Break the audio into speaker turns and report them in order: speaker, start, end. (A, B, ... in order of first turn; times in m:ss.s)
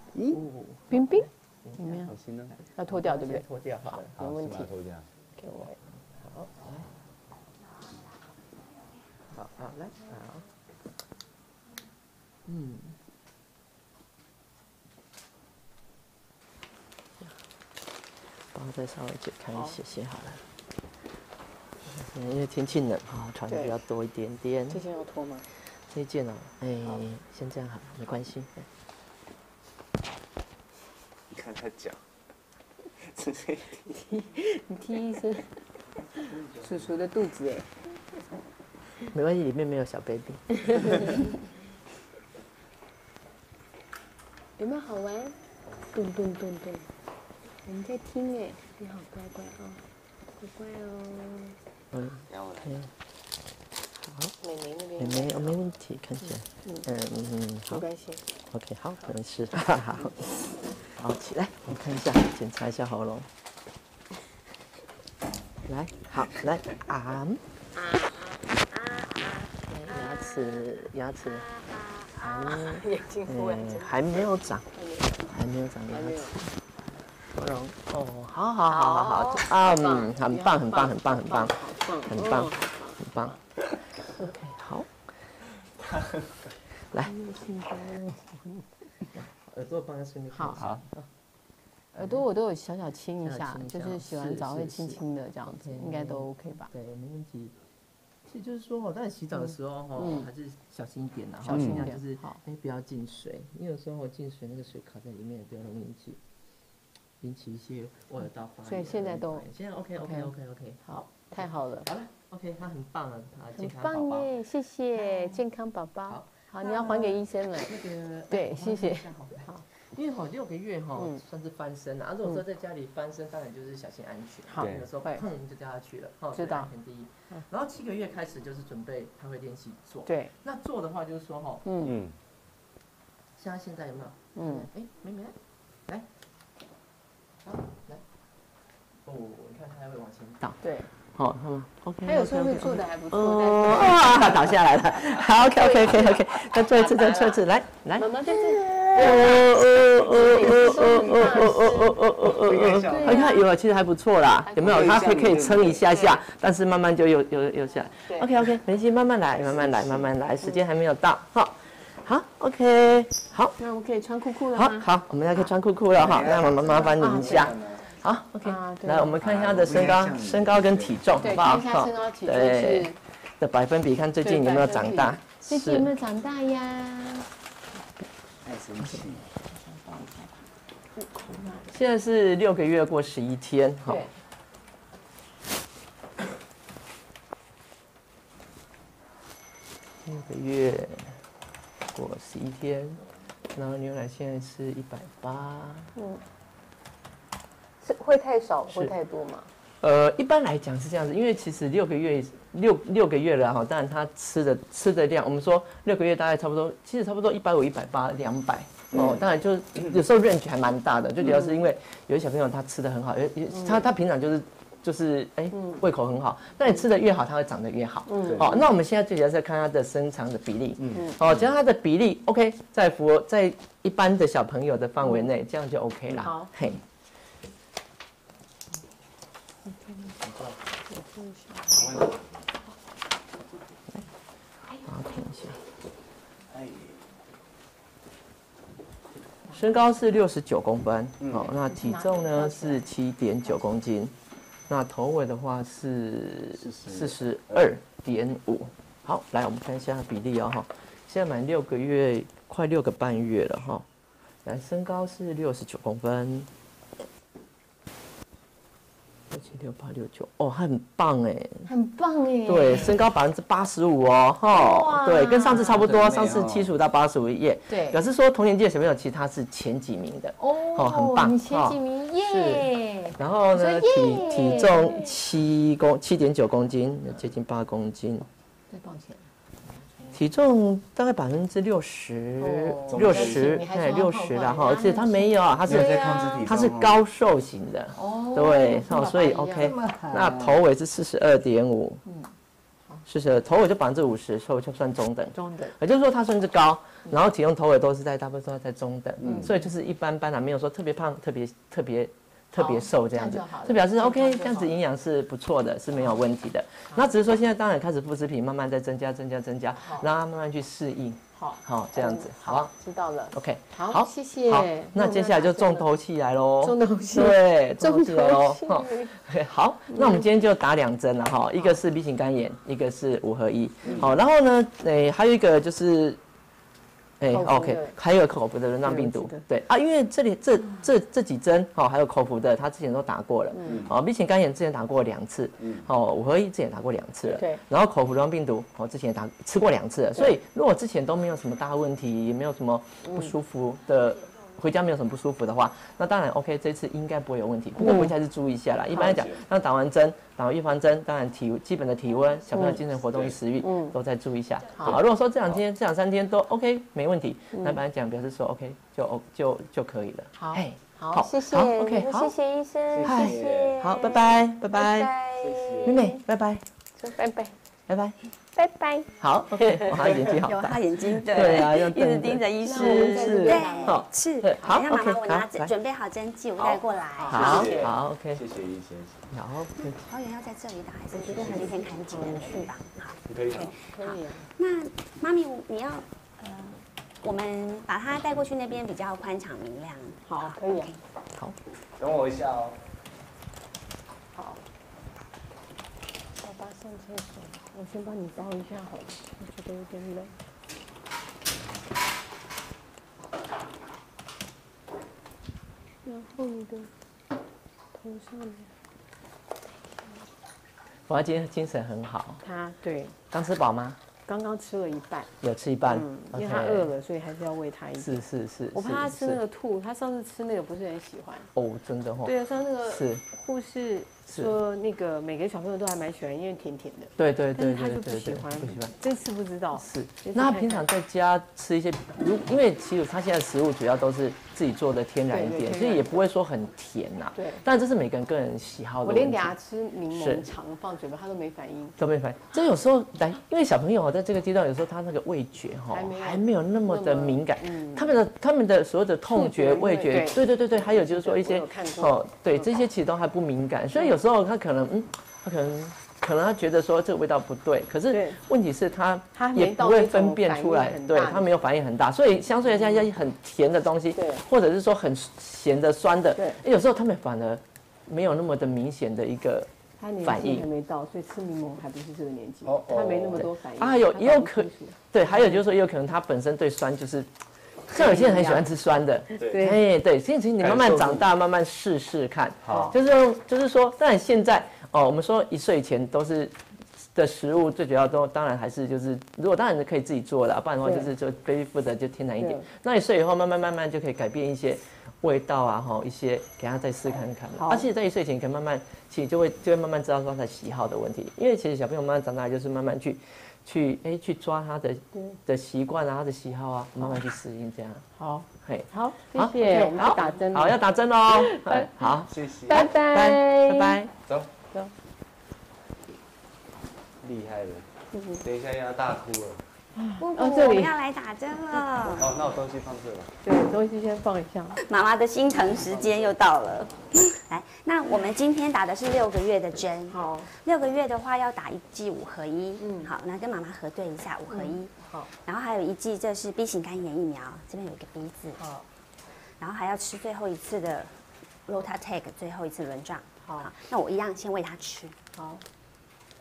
0:00.3-0:04.1 A
0:00.9-0:02.1 B
0:02.1-0:02.6 C
0:02.7-0:04.7 B
0:04.1-0:05.1 C
0:05.4-0:06.5 B
0:06.6-0:06.9 A
0:09.3-0:10.5 A
0:12.4-0:13.0 A
0:18.5-0:20.4 A
0:21.8-0:24.8 A
0:24.7-0:25.5 B
0:25.6-0:28.7 A
0:31.3-0:32.0 C
0:33.0-0:33.9 C
0:33.9-0:35.6 B
0:36.1-0:36.9 C
0:36.6-0:37.7 B
0:39.1-0:41.1 A
0:40.7-0:41.0 B
0:44.6-0:45.4 B
0:45.9-0:46.9 B
0:47.6-0:49.8 B
0:50.4-0:51.6 B
0:51.9-0:52.9 A
0:52.3-0:52.9 C
0:54.0-0:54.3 A
0:54.4-0:55.6 B
0:55.0-0:57.8 A
0:57.7-0:58.2 B
0:58.5-1:00.2 A
1:00.9-1:03.3 A
1:05.6-1:07.4 A
1:07.8-1:10.6 B
1:09.7-1:11.5 A
1:11.2-1:13.9 B
1:12.2-1:14.7 A
1:14.7-1:15.3 B
1:15.2-1:16.5 A
1:15.9-1:16.4 B
1:17.4-1:17.8 B
1:17.8-1:23.4 A
1:18.7-1:23.4 B
1:24.2-1:25.3 A
1:27.0-1:28.6 B
1:29.2-1:31.0 A
1:30.3-1:30.6 B
1:30.6-1:30.8 C
1:31.9-1:36.7 B
1:33.2-1:37.5 A
1:38.2-1:46.2 A
1:39.5-1:40.3 B
1:41.4-1:42.4 B
1:41.5-1:41.8 C
1:47.2-1:50.8 A
1:48.6-1:49.5 B
1:50.0-1:50.3 B
1:50.8-1:51.9 B
1:51.8-1:54.3 A
1:53.6-1:57.8 B
1:55.0-1:55.4 A
1:56.1-2:11.6 A
1:58.3-1:59.6 B
2:04.5-2:05.2 B
2:04.6-2:04.9 C
2:06.3-2:06.7 B
2:10.0-2:10.3 B
2:11.6-2:11.9 B
2:11.8-2:12.2 C
2:13.4-2:16.1 A
2:14.3-2:14.7 B
2:17.4-2:18.0 A
2:19.0-2:43.6 A
2:20.6-2:20.9 B
2:22.0-2:24.5 B
2:25.4-2:27.4 B
2:28.0-2:32.0 B
2:32.3-2:33.3 C
2:32.8-2:33.4 B
2:34.5-2:34.8 B
2:34.6-2:35.9 C
2:39.4-2:40.1 C
2:43.6-2:44.9 B
2:44.5-2:55.9 A
2:45.9-2:47.8 C
2:46.9-2:47.6 B
2:48.4-2:49.2 B
2:49.2-2:51.3 C
2:51.2-2:53.0 B
2:54.2-2:57.3 B
2:58.4-2:59.3 C
2:59.5-3:00.5 B
3:01.1-3:01.6 B
3:01.6-3:04.1 A
3:03.9-3:04.1 B
3:10.0-3:11.2 A
3:11.9-3:13.0 A
3:13.5-3:15.9 A
3:15.9-3:16.2 B
3:17.8-3:19.5 B
3:19.8-3:46.8 A
3:28.9-3:29.2 C
3:33.5-3:33.8 B
3:35.5-3:35.8 B
3:38.1-3:38.6 B
3:38.2-3:38.5 C
3:40.8-3:41.4 C
3:46.2-3:46.5 B
3:49.7-3:50.1 B
3:50.2-3:50.6 C
3:50.9-3:51.8 B
3:51.7-3:52.4 C
3:54.8-3:55.6 A
3:56.5-3:57.0 C
3:59.5-4:04.1 A
4:01.2-4:01.5 C
4:01.6-4:02.9 B
4:04.7-4:13.8 A
4:06.6-4:07.6 C
4:14.4-4:16.5 A
4:19.3-4:21.7 A
4:21.7-4:23.0 B
4:22.5-4:38.3 A
4:24.5-4:25.9 B
4:25.6-4:26.7 C
4:27.7-4:28.0 B
4:30.4-4:35.1 B
4:38.7-4:39.3 B
4:40.1-4:52.0 A
4:42.4-4:46.4 B
4:42.9-4:43.6 C
4:45.6-4:47.0 C
4:47.9-4:49.8 B
4:49.6-4:50.6 C
4:52.0-4:52.3 B
4:53.1-5:12.7 A
4:55.3-4:55.8 B
4:59.2-4:59.5 C
5:02.5-5:04.8 B
5:09.8-5:10.1 B
5:11.3-5:15.9 B
5:13.3-5:26.2 A
5:16.6-5:19.2 B
5:19.9-5:20.2 B
5:27.2-6:02.3 A
5:27.3-5:28.0 B
5:28.8-5:29.4 B
5:33.5-5:33.8 B
5:33.6-5:33.9 C
5:35.6-5:35.9 C
5:37.3-5:37.6 B
5:43.0-5:43.3 B
5:47.8-5:48.1 B
5:48.9-5:49.2 B
5:49.0-5:49.4 C
5:52.5-5:52.8 B
5:52.9-5:53.4 C
5:53.6-5:54.0 B
5:54.8-5:55.6 C
5:57.5-5:57.8 B
6:00.4-6:06.2 B
6:02.9-6:04.0 C
6:03.0-6:05.1 A
6:05.4-6:06.0 C
6:05.8-6:06.6 A
6:06.9-6:07.5 B
6:07.9-6:08.2 A
6:08.5-6:09.9 B
6:09.2-6:15.7 A
6:10.3-6:17.7 D
6:12.6-6:14.0 B
6:16.6-6:19.3 C
6:17.2-6:17.9 B
6:17.3-6:18.4 A
6:19.3-6:20.0 A
6:19.8-6:31.0 D
6:21.1-6:22.7 B
6:23.2-6:23.8 C
6:23.8-6:24.5 B
6:30.2-6:30.9 B
6:32.0-6:32.8 C
6:34.3-6:34.6 B
6:36.4-6:40.3 B
6:46.0-6:46.9 B
6:47.9-6:48.7 B
6:51.1-6:52.4 A
6:52.4-6:53.2 B
6:53.3-6:54.0 A
6:54.2-6:55.3 B
6:55.4-6:56.9 A
6:55.9-6:58.2 B
6:58.0-6:59.4 A
6:58.7-7:01.5 B
7:01.5-7:03.2 A
7:02.2-7:10.8 B
7:07.2-7:08.9 A
7:09.8-7:19.5 A
7:15.3-7:16.0 B
7:17.3-7:17.6 B
7:19.0-7:22.0 B
7:20.1-7:20.5 A
7:22.0-7:49.7 A
7:25.9-7:28.1 B
7:29.3-7:32.6 B
7:38.1-7:38.4 B
7:39.3-7:41.5 B
7:42.7-7:43.0 B
7:44.1-7:44.4 B
7:46.3-7:46.6 B
7:50.0-7:55.0 B
7:50.2-7:50.7 A
7:52.6-7:53.5 C
7:53.8-7:57.3 A
7:57.9-8:28.0 A
7:57.9-7:58.7 B
7:59.3-7:59.8 B
8:00.6-8:01.3 C
8:02.6-8:02.9 C
8:02.7-8:02.9 B
8:10.8-8:11.1 B
8:12.4-8:12.7 B
8:17.5-8:17.8 B
8:25.1-8:25.4 B
8:28.2-8:32.1 B
8:28.6-8:34.1 A
8:32.3-8:32.8 C
8:32.6-8:34.0 B
8:37.2-8:37.9 C
8:38.1-8:38.4 B
8:38.4-8:39.6 C
8:39.9-8:40.9 B
8:40.2-8:42.3 D
8:42.1-8:43.3 C
8:43.4-8:44.8 B
8:44.8-8:58.6 D
8:45.9-8:46.2 C
8:50.1-8:50.5 B
8:52.8-8:53.1 B
8:54.5-8:55.3 B
8:58.6-8:58.8 B
8:59.3-9:05.2 D
9:03.4-9:03.7 B
9:05.4-9:05.6 B